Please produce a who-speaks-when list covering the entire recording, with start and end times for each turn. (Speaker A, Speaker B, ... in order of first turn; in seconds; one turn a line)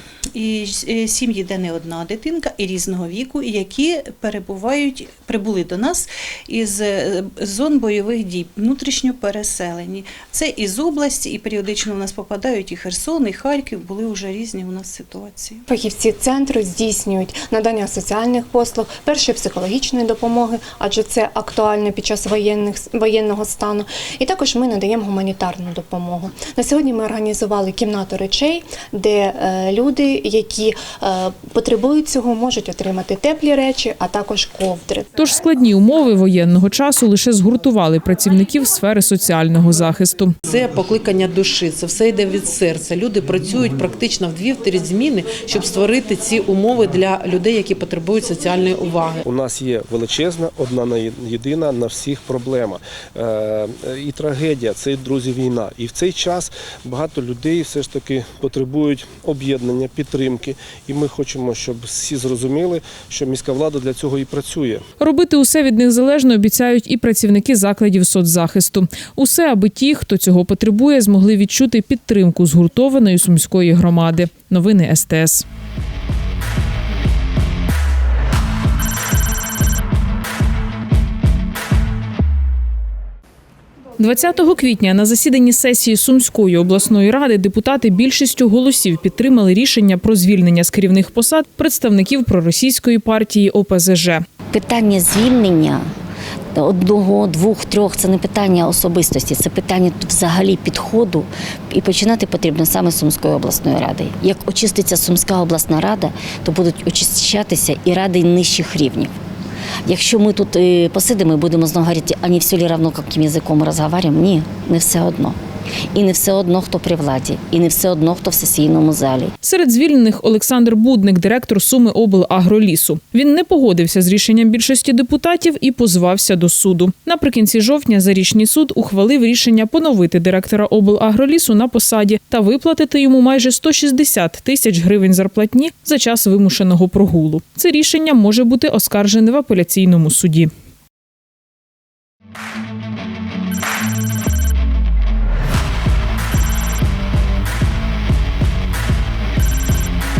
Speaker A: 0.3-15.6
Speaker B: 15.7-35.1
Speaker C: 35.2-40.3
Speaker D: 40.5-49.2
Speaker E: 49.2-64.8
Speaker C: 65.0-75.5
Speaker C: 84.0-94.2
Speaker F: 94.5-95.9
Speaker F: 96.5-109.1
Speaker F: 109.8-115.4
Speaker F: 115.9-119.3
Speaker C: 119.4-140.5